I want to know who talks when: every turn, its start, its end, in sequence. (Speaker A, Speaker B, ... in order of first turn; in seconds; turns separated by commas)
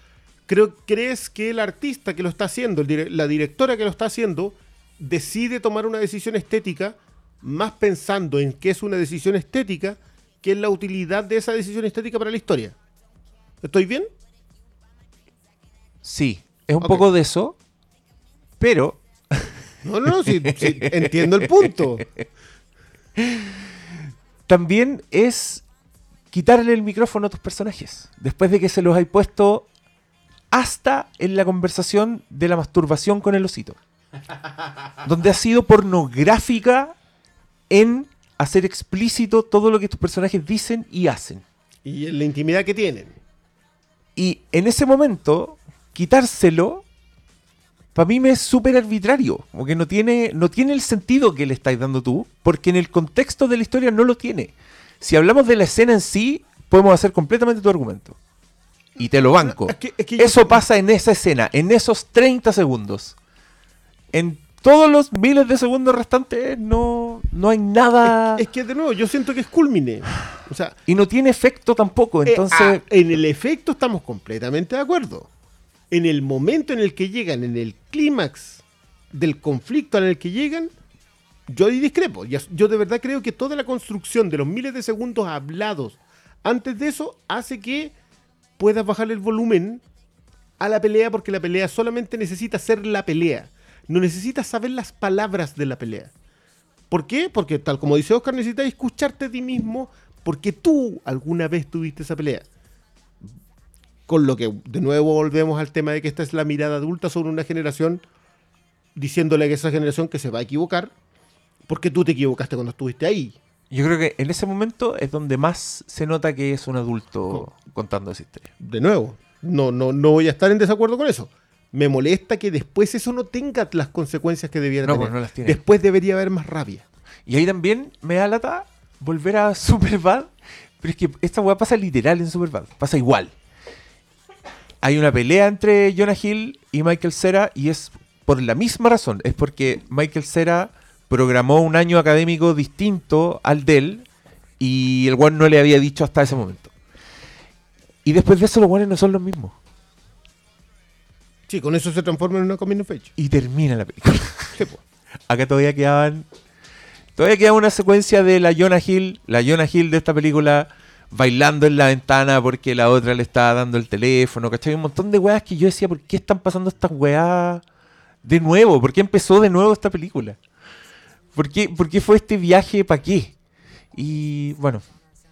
Speaker A: 0.5-12.8, Speaker A: 13.6-14.1, Speaker B: 16.0-17.6, Speaker B: 18.6-19.5, Speaker A: 19.8-22.1, Speaker B: 20.1-22.2, Speaker B: 24.5-25.6, Speaker B: 26.3-29.6, Speaker B: 30.5-33.8, Speaker B: 35.0-36.9, Speaker B: 37.7-41.4, Speaker A: 41.8-43.1, Speaker B: 44.1-46.8, Speaker B: 47.9-58.2, Speaker B: 59.0-63.1, Speaker A: 59.4-60.6, Speaker B: 64.1-68.4, Speaker A: 68.1-70.8, Speaker B: 70.8-72.8, Speaker A: 72.2-75.3, Speaker A: 75.9-80.7, Speaker A: 81.5-87.9, Speaker A: 88.6-89.8, Speaker A: 90.6-96.1, Speaker A: 96.9-102.4, Speaker A: 104.1-108.0, Speaker A: 109.0-110.9, Speaker A: 111.7-113.3, Speaker B: 113.7-118.5, Speaker A: 118.6-126.8, Speaker B: 124.8-125.6, Speaker B: 127.3-130.3, Speaker B: 130.8-133.3, Speaker B: 134.8-144.1, Speaker B: 144.6-146.7, Speaker B: 148.0-149.5, Speaker A: 151.5-153.1, Speaker B: 153.2-154.6, Speaker B: 155.3-156.2, Speaker B: 157.2-167.6, Speaker B: 168.2-170.4, Speaker B: 171.3-173.3, Speaker B: 173.9-174.8